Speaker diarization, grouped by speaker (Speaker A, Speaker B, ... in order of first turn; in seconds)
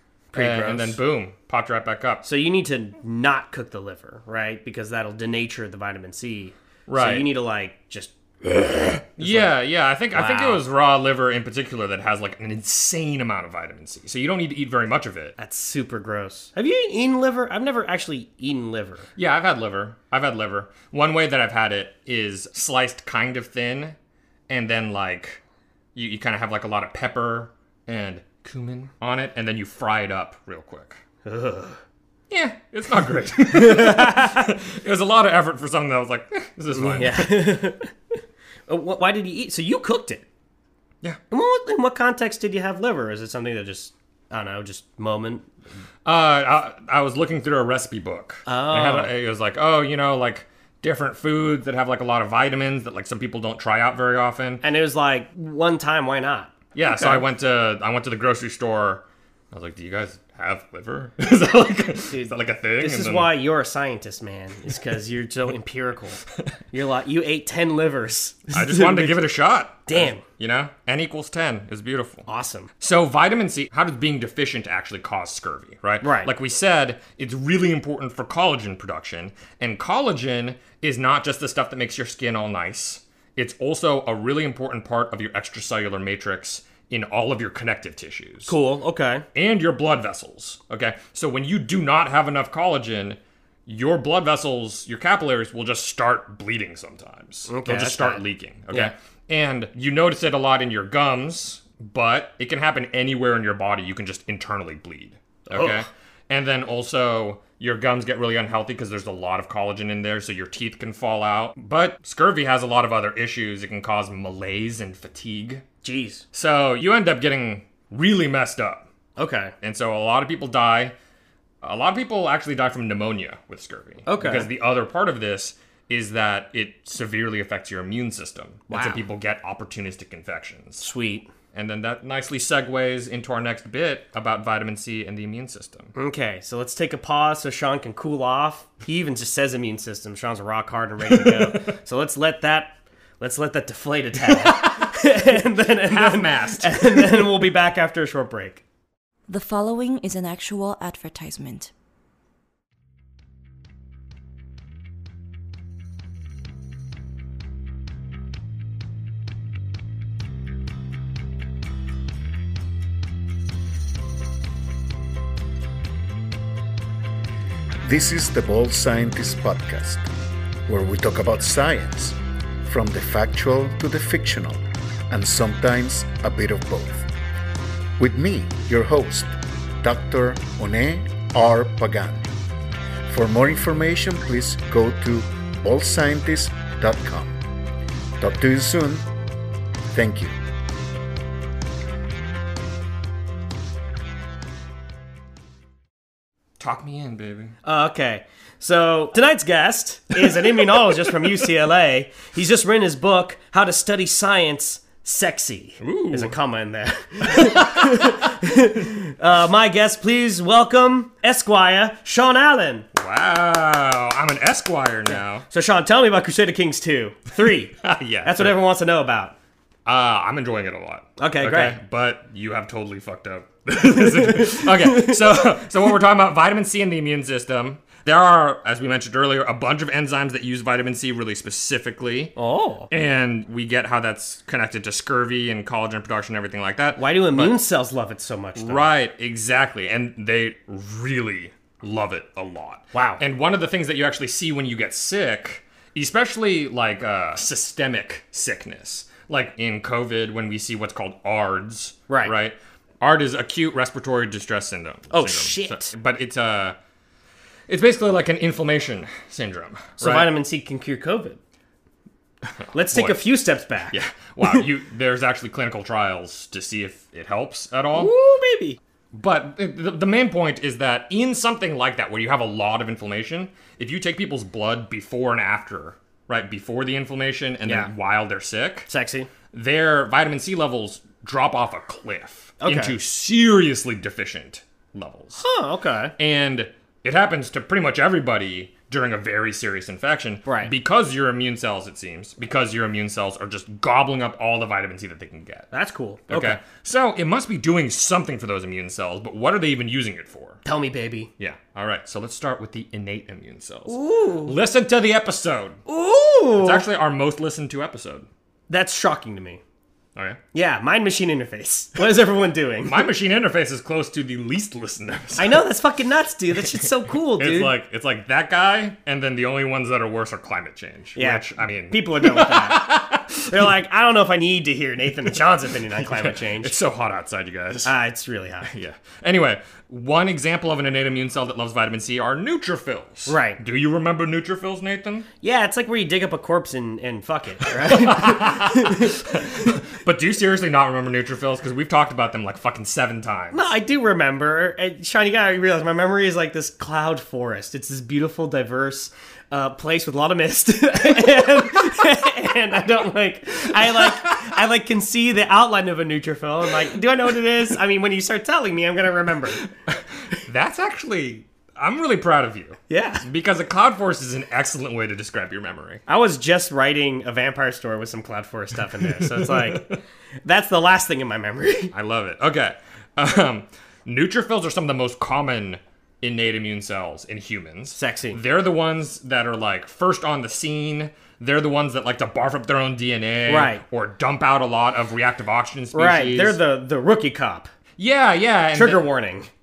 Speaker A: 0.3-1.0, 2.2-10.6, 15.4-19.1, 31.2-31.8, 33.5-34.5, 36.8-37.9, 38.7-40.2, 41.3-45.5, 48.5-49.1, 54.6-57.2, 62.1-69.2, 69.9-70.2, 72.3-72.7, 76.0-76.3, 88.5-89.2, 97.5-98.9, 105.5-105.9, 115.8-116.2, 119.2-119.5, 124.0-124.5, 128.7-129.0, 130.8-131.3, 135.9-148.6, 197.6-212.9, 215.5-219.3, 221.2-221.8, 224.2-225.2, 232.3-232.9, 237.0-238.9, 242.9-243.2, 252.1-252.3, 255.1-255.9, 260.0-261.4, 262.7-263.9, 267.9-268.8, 277.6-277.9, 278.9-279.3, 282.6-282.9, 285.4-286.1, 290.4-290.7, 295.7-296.6, 300.6-301.3, 303.9-304.6, 305.9-306.8, 308.7-309.6, 310.5-313.1, 315.4-317.7, 321.1-326.8, 327.8-328.7, 333.3-333.6, 335.4-339.2, 343.5-359.7, 362.9-363.2, 366.1-371.9, 377.9-378.4, 383.5-383.8, 385.9-387.7, 388.7-389.5
Speaker B: 0.3-2.2, 6.9-7.3, 9.2-15.3, 19.1-23.9, 24.5-25.4, 25.9-31.0, 32.3-37.5, 46.0-54.6, 56.7-63.3, 68.5-72.3, 72.8-88.5, 89.3-115.6, 116.3-118.9, 119.6-120.9, 121.6-130.9, 131.5-135.9, 141.1-141.5, 144.3-145.1, 145.8-147.3, 196.6-197.5, 205.8-206.3, 207.3-208.1, 212.9-215.4, 217.8-218.6, 219.8-232.3, 232.9-237.6, 238.6-256.8, 257.7-260.3, 262.5-263.3, 263.9-268.1, 269.1-278.9, 279.5-285.4, 286.2-295.7, 296.3-300.6, 301.4-305.8, 306.6-308.3, 310.1-310.4, 312.8-315.6, 316.6-323.7, 325.2-327.9, 328.6-335.3, 337.8-343.7, 359.9-366.0, 369.2-369.8, 371.9-386.6, 388.0-389.1
Speaker C: 149.3-151.7
Speaker D: 167.8-170.1, 170.7-177.1, 178.0-182.3, 183.1-187.4, 188.2-189.1, 189.9-190.3